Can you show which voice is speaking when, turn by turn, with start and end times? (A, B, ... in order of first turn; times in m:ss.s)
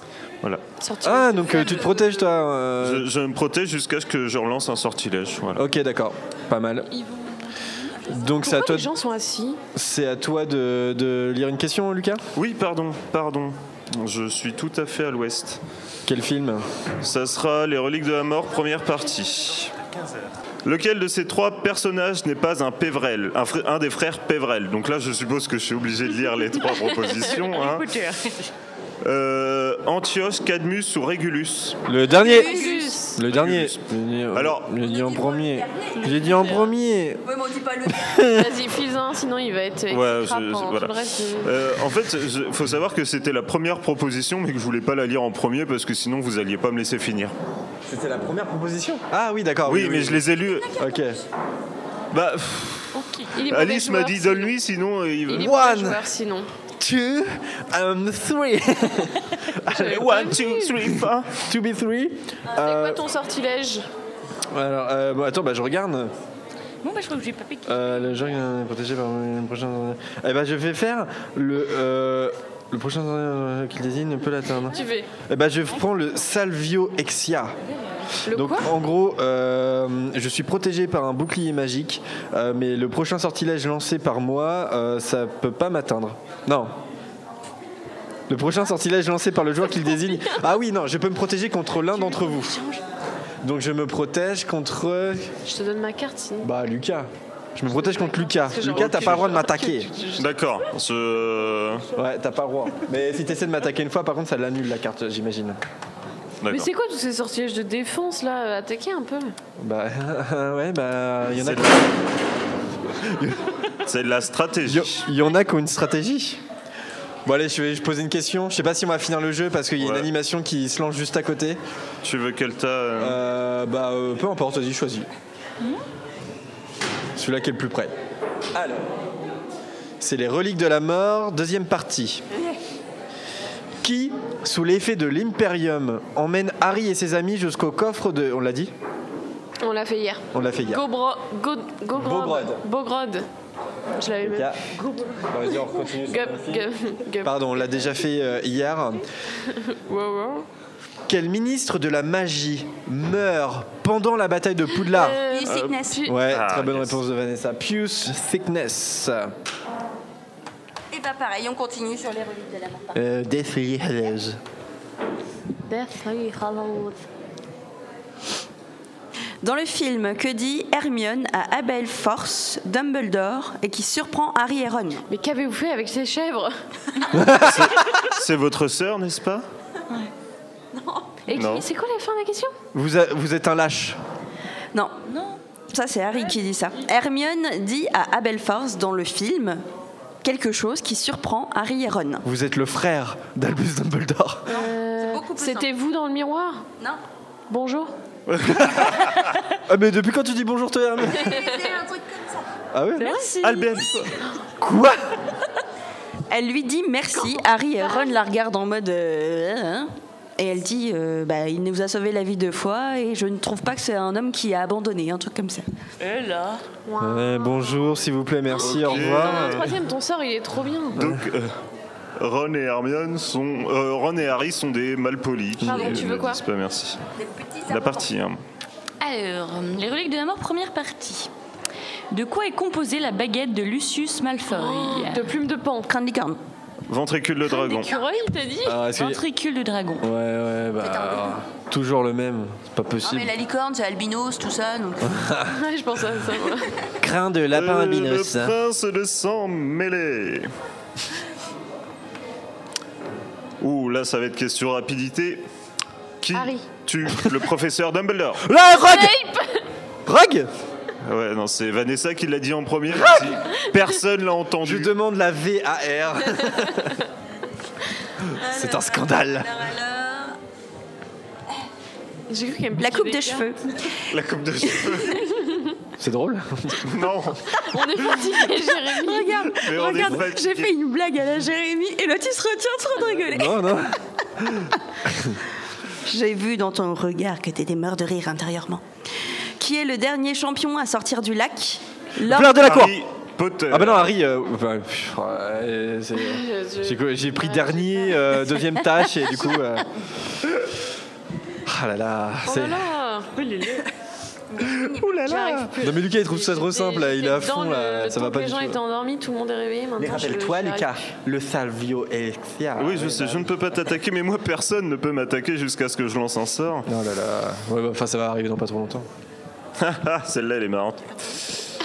0:00.8-0:02.2 A
0:01.0-0:03.0 B
0:02.8-0:05.6 C
0:05.6-0:06.9 B
0:06.9-0:08.3 D
0:08.1-0:08.9 B
0:08.4-0:09.6 A
0:09.7-0:12.2 B
0:12.4-0:15.6 C
0:16.1-0:16.7 B
0:17.0-0:19.7 C
0:20.6-0:27.9 C
0:27.3-0:28.5 D
0:29.0-0:31.8 C
0:31.9-0:32.6 B
0:32.1-0:33.1 E
0:32.2-0:33.2 A
0:33.2-0:37.2 B
0:33.2-0:33.8 C
0:34.3-0:34.7 C
0:34.8-0:36.6 E
0:36.0-0:36.7 A
0:37.2-0:38.2 E
0:37.9-0:38.5 B
0:38.3-0:41.6 A
0:39.9-0:47.3 C
0:47.9-0:50.2 B
0:49.7-0:50.8 C
0:50.8-0:51.2 B
0:52.1-0:53.0 C
0:52.9-0:53.4 D
0:53.4-0:54.6 A
0:53.5-0:55.4 C
0:55.3-0:56.5 A
0:55.3-0:56.0 B
0:56.8-1:00.1 B
0:59.7-1:00.8 A
0:59.8-1:01.4 C
1:01.4-1:03.0 B
1:02.5-1:03.9 A
1:04.5-1:06.1 B
1:06.8-1:08.4 D
1:07.7-1:17.6 B
1:14.7-1:15.1 A
1:18.3-1:18.7 A
1:18.3-1:26.7 B
1:28.3-1:32.6 B
1:31.8-1:32.8 D
1:33.4-1:35.3 B
1:35.5-1:36.5 A
1:36.4-1:39.9 B
1:37.7-1:40.4 A
1:40.2-1:41.8 C
1:41.9-1:45.6 B
1:46.4-1:46.7 C
1:46.5-1:49.3 A
1:49.6-1:51.9 B
1:51.4-1:51.9 C
1:53.0-1:53.5 B
1:53.9-1:55.0 C
1:54.7-1:56.4 B
1:57.2-2:01.6 B
1:59.8-2:00.1 C
2:02.0-2:03.2 C
2:03.0-2:05.1 B
2:07.2-2:07.9 B
2:08.5-2:08.9 B
2:10.0-2:12.2 B
2:13.8-2:18.7 B
2:19.6-2:23.3 A
2:20.3-2:20.8 B
2:21.9-2:22.6 B
2:24.0-2:24.5 A
2:24.2-2:24.6 B
2:25.3-2:26.7 B
2:26.0-2:27.5 A
2:27.2-2:29.1 B
2:29.5-2:30.4 A
2:31.1-2:35.2 B
2:34.8-2:36.3 A
2:35.2-2:36.0 E
2:36.1-2:39.3 B
2:36.3-2:37.0 C
2:40.9-2:42.9 E
2:42.9-2:44.4 B
2:45.7-2:47.0 A
2:49.4-2:55.0 E
2:55.1-2:56.5 A
2:57.1-2:57.8 B
2:57.4-2:59.4 C
3:01.3-3:02.5 A
3:01.3-3:01.6 C
3:02.7-3:04.0 B
3:05.1-3:05.4 D
3:05.7-3:09.6 E
3:10.2-3:12.2 E
3:12.2-3:14.5 B
3:14.5-3:16.6 A
3:14.5-3:15.7 E
3:17.5-3:17.9 A
3:18.3-3:19.2 C
3:18.5-3:18.9 B
3:19.7-3:21.4 B
3:21.1-3:22.5 E
3:21.2-3:21.8 A
3:22.7-3:23.1 B
3:23.0-3:24.0 A
3:23.4-3:24.1 C
3:24.6-3:25.0 B
3:26.3-3:35.6 E
3:36.0-3:36.6 D
3:36.8-3:37.9 A
3:37.0-3:39.7 B
3:38.6-3:41.0 A
3:38.6-3:39.7 C
3:41.0-3:41.5 C
3:42.2-3:47.0 C
3:45.6-3:46.0 B
3:45.6-3:46.4 A
3:47.2-3:48.1 E
3:47.7-3:48.4 C
3:49.0-3:51.3 D
3:52.1-3:55.3 D
3:54.5-3:55.9 A
3:55.9-3:56.4 E
3:56.9-3:57.9 C
3:57.4-3:58.8 A
3:58.6-3:59.2 B
3:58.9-4:00.1 D
4:00.0-4:03.3 B
4:00.8-4:01.4 E
4:03.0-4:05.2 E
4:05.0-4:05.5 B
4:05.5-4:06.7 A
4:07.0-4:08.6 B
4:07.5-4:10.5 C
4:13.6-4:15.4 C
4:16.2-4:18.4 C
4:16.3-4:16.8 A
4:18.4-4:19.2 B
4:18.7-4:19.6 A
4:20.1-4:20.5 B
4:21.0-4:24.9 C
4:22.9-4:23.4 B
4:24.6-4:26.9 B
4:26.4-4:26.9 A
4:28.3-4:29.5 B
4:28.4-4:30.4 E
4:32.3-4:33.5 A
4:32.8-4:33.9 E
4:34.1-4:35.2 C
4:34.7-4:35.0 E
4:35.3-4:35.8 A
4:36.0-4:36.9 B
4:36.8-4:37.5 C
4:37.7-4:39.4 A
4:39.0-4:43.7 E
4:39.5-4:40.7 C
4:43.3-4:45.4 B
4:46.0-4:48.8 E
4:49.6-4:52.8 E
4:52.2-4:53.0 B
4:52.6-4:54.1 C
4:53.7-4:59.9 B
4:56.2-4:58.5 A
5:01.7-5:02.9 B
5:02.5-5:03.3 A
5:03.4-5:03.8 D
5:04.5-5:05.3 E
5:05.0-5:05.5 C
5:05.2-5:11.0 A
5:05.3-5:08.8 B
5:10.0-5:13.5 B
5:12.8-5:16.9 C
5:16.9-5:19.1 B
5:19.8-5:21.2 C